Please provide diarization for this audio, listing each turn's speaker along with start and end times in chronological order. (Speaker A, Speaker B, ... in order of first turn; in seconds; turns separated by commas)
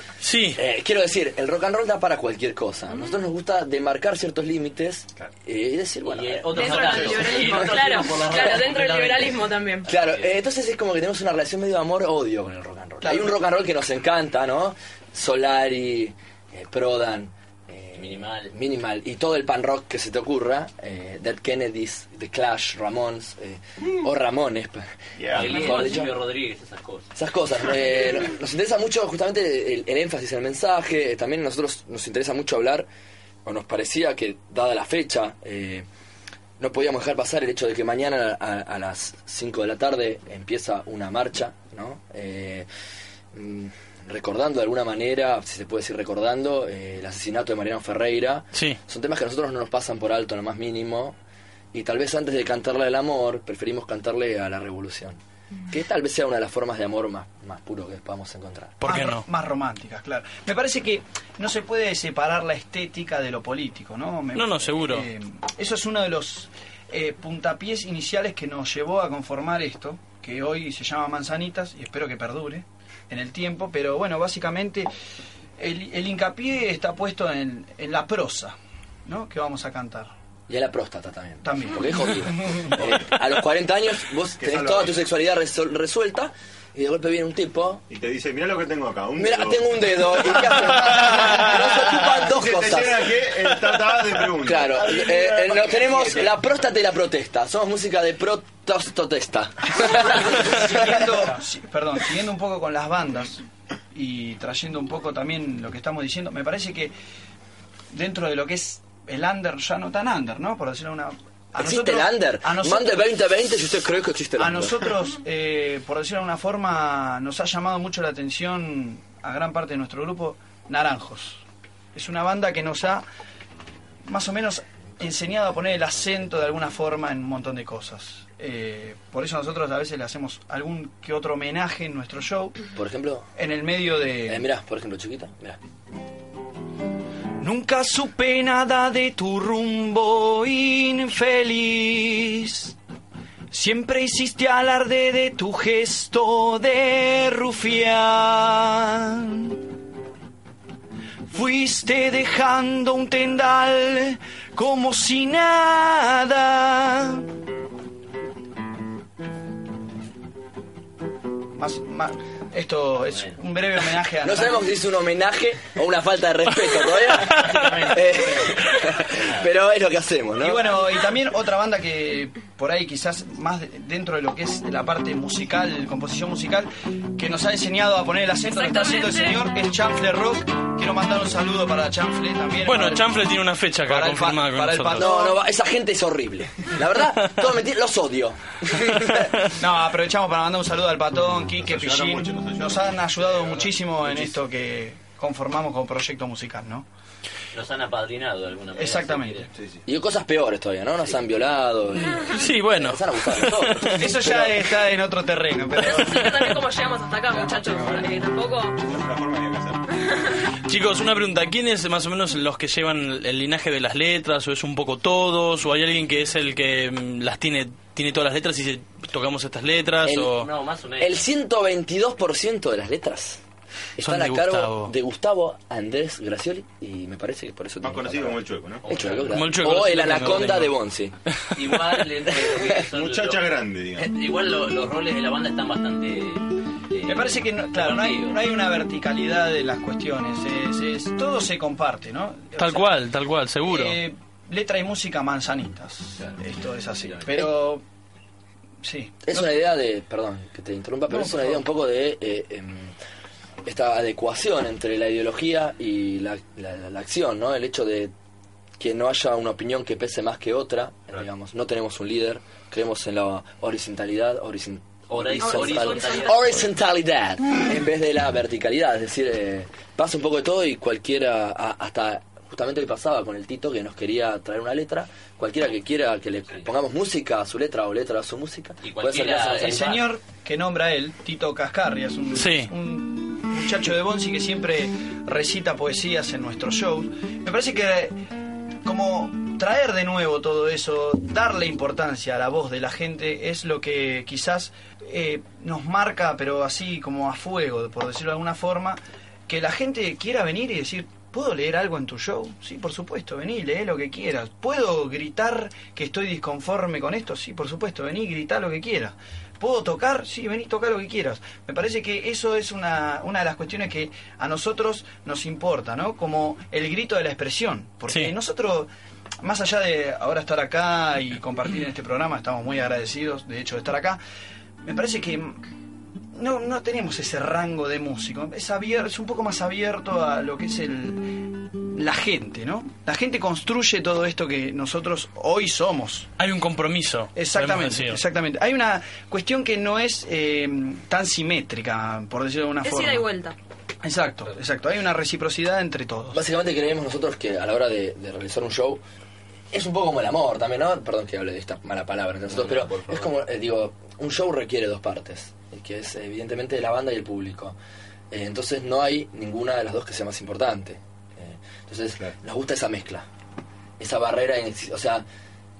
Speaker A: 0.2-0.6, Speaker B: 0.6-7.2, Speaker C: 2.9-3.2, Speaker D: 6.0-10.3, Speaker C: 6.5-9.9, Speaker E: 6.8-7.7, Speaker B: 9.9-26.2, Speaker F: 13.0-13.4, Speaker D: 18.0-18.5, Speaker E: 25.2-26.0, Speaker D: 25.3-27.1, Speaker B: 27.1-32.9, Speaker B: 33.5-35.9, Speaker B: 36.6-42.7, Speaker B: 43.3-51.2, Speaker B: 51.7-58.8, Speaker A: 58.8-59.2, Speaker F: 58.9-74.9, Speaker A: 64.3-65.1, Speaker F: 75.6-78.5, Speaker F: 79.1-80.1, Speaker B: 80.5-87.8, Speaker F: 81.4-82.7, Speaker E: 84.4-85.0, Speaker E: 87.9-96.3, Speaker B: 89.2-93.7, Speaker B: 94.4-101.0, Speaker F: 100.2-106.9, Speaker F: 107.9-113.0, Speaker B: 111.6-114.8, Speaker F: 114.4-121.4, Speaker F: 122.0-123.0, Speaker F: 124.0-132.6, Speaker B: 132.8-133.3, Speaker F: 133.4-134.5, Speaker B: 134.3-135.6, Speaker F: 137.4-142.8, Speaker F: 143.5-149.6, Speaker F: 151.3-157.3, Speaker F: 161.6-164.7, Speaker D: 163.1-163.4, Speaker B: 164.2-170.7, Speaker D: 167.3-168.3, Speaker D: 169.2-169.5, Speaker F: 170.4-183.3, Speaker C: 178.4-179.5, Speaker A: 182.7-185.1, Speaker F: 183.8-185.4, Speaker B: 184.9-189.3, Speaker F: 189.5-196.9, Speaker E: 191.5-194.3, Speaker D: 197.5-199.5, Speaker F: 198.7-199.5, Speaker E: 199.5-199.8, Speaker B: 199.9-204.6, Speaker A: 202.3-204.1, Speaker F: 204.0-206.3, Speaker C: 205.8-208.8, Speaker E: 208.8-210.0, Speaker C: 210.0-210.4, Speaker A: 210.6-220.5, Speaker B: 220.0-220.4, Speaker D: 220.4-221.2, Speaker B: 221.0-223.4, Speaker B: 224.0-231.2, Speaker A: 224.0-224.9, Speaker E: 227.8-228.8, Speaker D: 228.8-229.5, Speaker A: 229.3-230.7, Speaker D: 231.5-238.4, Speaker B: 232.5-232.7, Speaker E: 232.8-234.1, Speaker F: 237.1-243.0, Speaker A: 242.6-244.0, Speaker F: 243.6-247.8, Speaker D: 247.0-247.4, Speaker F: 248.8-249.5, Speaker B: 249.2-252.9, Speaker F: 251.1-251.7, Speaker B: 253.7-258.1, Speaker B: 258.8-280.0, Speaker D: 265.1-266.6, Speaker C: 265.4-266.6, Speaker D: 278.8-279.9, Speaker F: 279.6-288.2, Speaker A: 282.3-282.7, Speaker F: 288.9-318.9, Speaker F: 319.4-324.2, Speaker F: 324.8-325.6, Speaker F: 326.3-336.3, Speaker A: 336.4-338.2, Speaker F: 337.4-343.3, Speaker C: 342.8-343.6, Speaker F: 344.0-346.4, Speaker B: 346.3-349.0, Speaker B: 349.7-357.8, Speaker D: 352.5-353.3, Speaker B: 358.3-363.3, Speaker B: 364.0-365.2